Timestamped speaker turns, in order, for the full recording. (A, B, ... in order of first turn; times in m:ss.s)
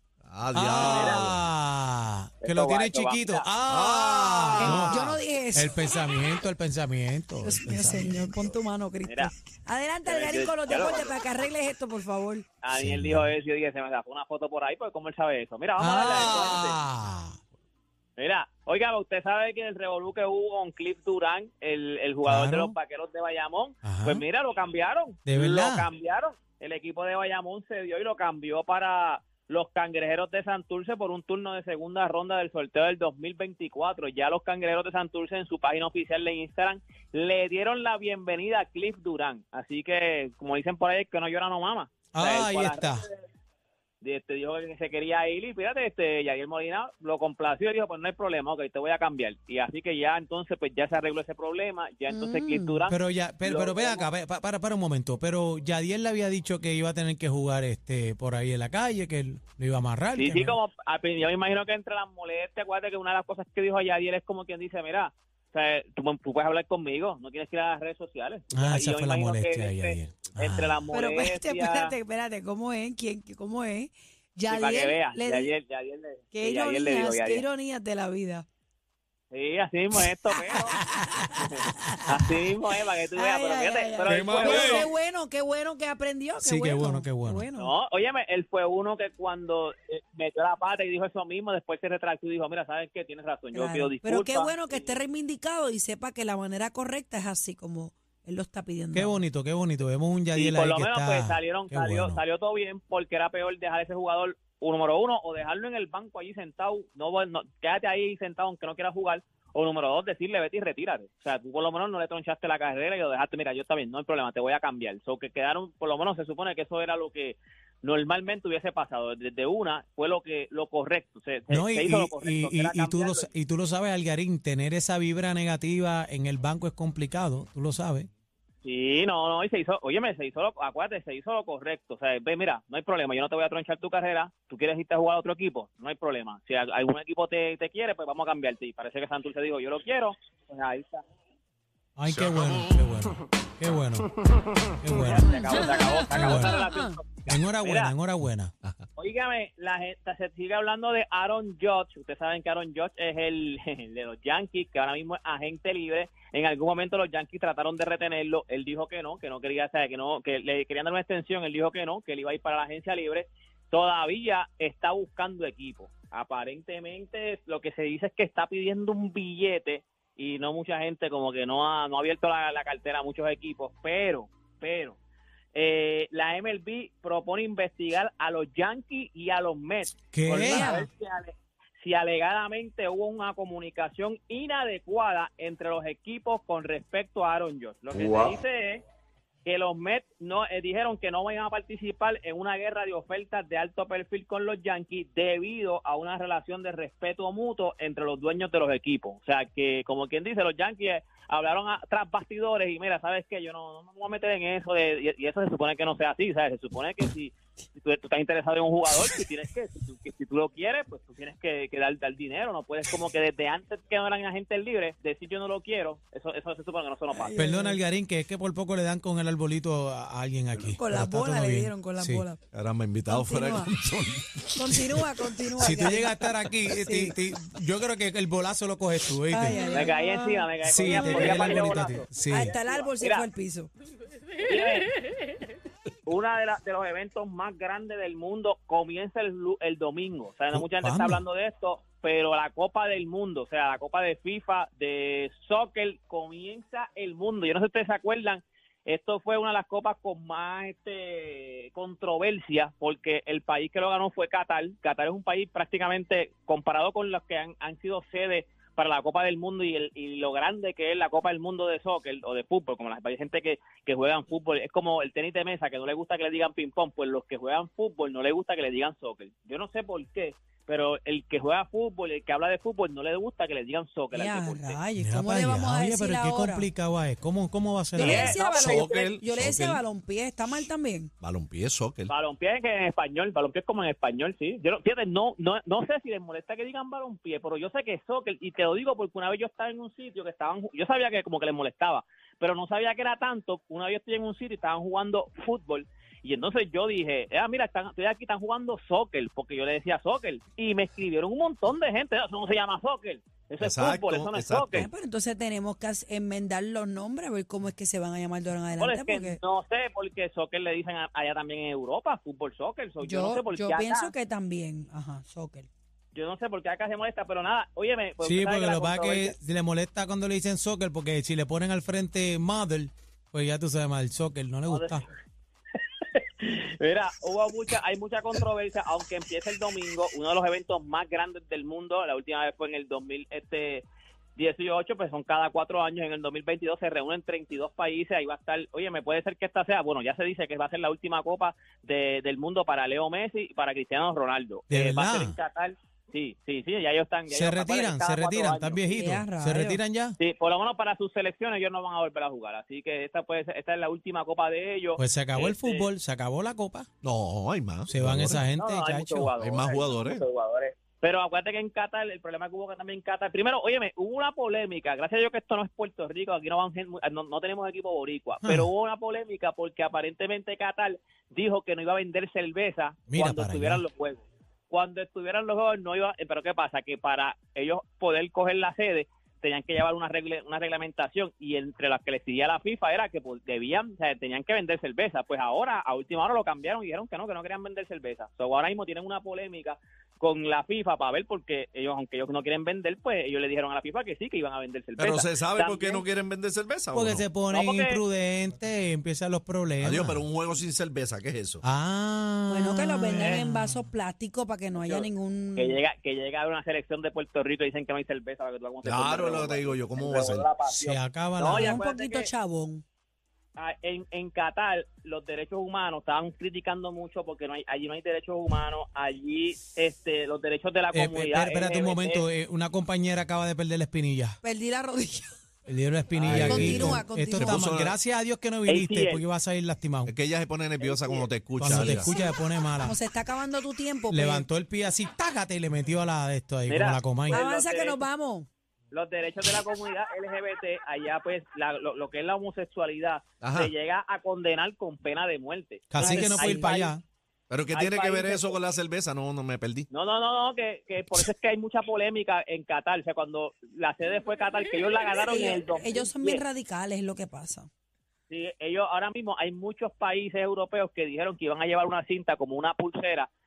0:00.2-0:01.4 A
0:00.5-0:08.3 B
0:00.8-0:01.3 C
0:02.4-0:03.5 C
0:03.7-0:05.1 A
0:04.6-0:05.8 D
0:07.4-0:12.4 D
0:09.0-0:09.3 C
0:10.0-0:11.2 C
0:12.6-0:16.8 C
0:12.7-0:13.3 B
0:15.8-0:17.4 B
0:18.2-0:43.2 C
0:22.2-0:22.7 B
0:23.8-0:24.2 B
0:25.3-0:25.9 B
0:42.1-0:43.0 B
0:44.0-0:54.1 C
0:52.1-0:52.8 D
0:52.9-1:00.5 B
1:00.2-1:11.9 C
1:08.5-1:10.8 B
1:10.9-1:15.5 D
1:14.5-1:17.4 C
1:16.3-1:18.4 D
1:19.3-1:20.8 C
1:20.3-1:22.0 D
1:21.3-1:24.9 C
1:23.1-1:27.7 D
1:24.1-1:24.8 B
1:26.4-1:27.5 B
1:27.6-1:34.9 C
1:33.5-1:39.2 D
1:38.9-1:42.2 B
1:40.3-2:03.3 C
2:01.5-2:08.1 B
2:08.6-2:21.0 C
2:22.0-2:24.1 B
2:22.1-2:22.5 A
2:24.8-2:26.6 B
2:25.0-2:27.9 C
2:25.5-2:26.9 D
2:27.3-2:28.5 B
2:29.0-2:55.0 C
2:55.5-3:08.8 C
3:00.1-3:00.8 B
3:00.4-3:00.9 D
3:09.4-3:37.3 C
3:37.1-3:37.8 D
3:37.4-3:42.2 B
3:40.7-3:42.4 D
3:42.5-3:45.9 A
3:43.1-3:43.7 D
3:44.5-3:46.3 D
3:45.6-3:49.9 B
3:46.8-3:47.2 D
3:49.3-3:51.6 D
3:49.7-3:53.3 C
3:50.6-3:52.5 B
3:52.2-3:53.7 D
3:54.4-3:54.9 C
3:56.0-4:34.8 C
4:00.5-4:01.2 B
4:34.1-4:36.7 D
4:35.0-4:38.4 B
4:38.0-4:39.2 C
4:38.0-4:41.1 D
4:38.4-4:39.8 A
4:41.2-4:42.1 A
4:42.1-5:04.8 C
5:03.6-5:04.9 A
5:04.8-5:09.4 D
5:08.8-5:14.1 C
5:13.0-5:15.7 D
5:16.1-5:19.3 C
5:18.2-5:25.0 B
5:24.7-5:25.1 C
5:26.0-5:33.8 C
5:34.4-5:49.2 C
5:44.7-5:45.3 B
5:47.3-5:50.2 B
5:48.9-5:49.8 D
5:50.2-5:55.9 C
5:55.0-5:56.9 B
5:57.0-5:58.4 A
5:57.9-5:59.3 B
5:58.6-6:36.0 C
5:59.4-6:00.2 A
6:08.4-6:08.7 B
6:13.1-6:13.8 B
6:35.0-6:37.3 A
6:36.9-6:40.2 B
6:37.5-6:38.0 C
6:39.8-6:41.6 A
6:41.6-6:43.8 B
6:42.5-6:45.8 D
6:44.7-6:52.3 C
6:48.8-6:50.5 A
6:50.7-6:51.8 B
6:51.5-6:52.8 D
6:53.6-7:02.2 C
7:00.9-7:04.4 B
7:04.4-7:05.3 D
7:05.7-7:10.1 B
7:06.1-7:08.0 A
7:06.4-7:07.6 D
7:08.6-7:09.2 C
7:10.0-7:12.1 A
7:10.8-7:11.4 C
7:11.6-7:13.0 B
7:12.1-7:14.4 D
7:14.1-7:17.4 B
7:16.7-7:18.0 C
7:17.3-7:18.5 D
7:18.9-7:26.9 C
7:23.4-7:23.7 A
7:25.9-7:27.0 B
7:26.0-7:26.7 D
7:27.5-7:29.9 A
7:27.7-7:28.6 C
7:29.9-7:36.4 C
7:35.2-7:37.7 D
7:38.3-7:43.3 C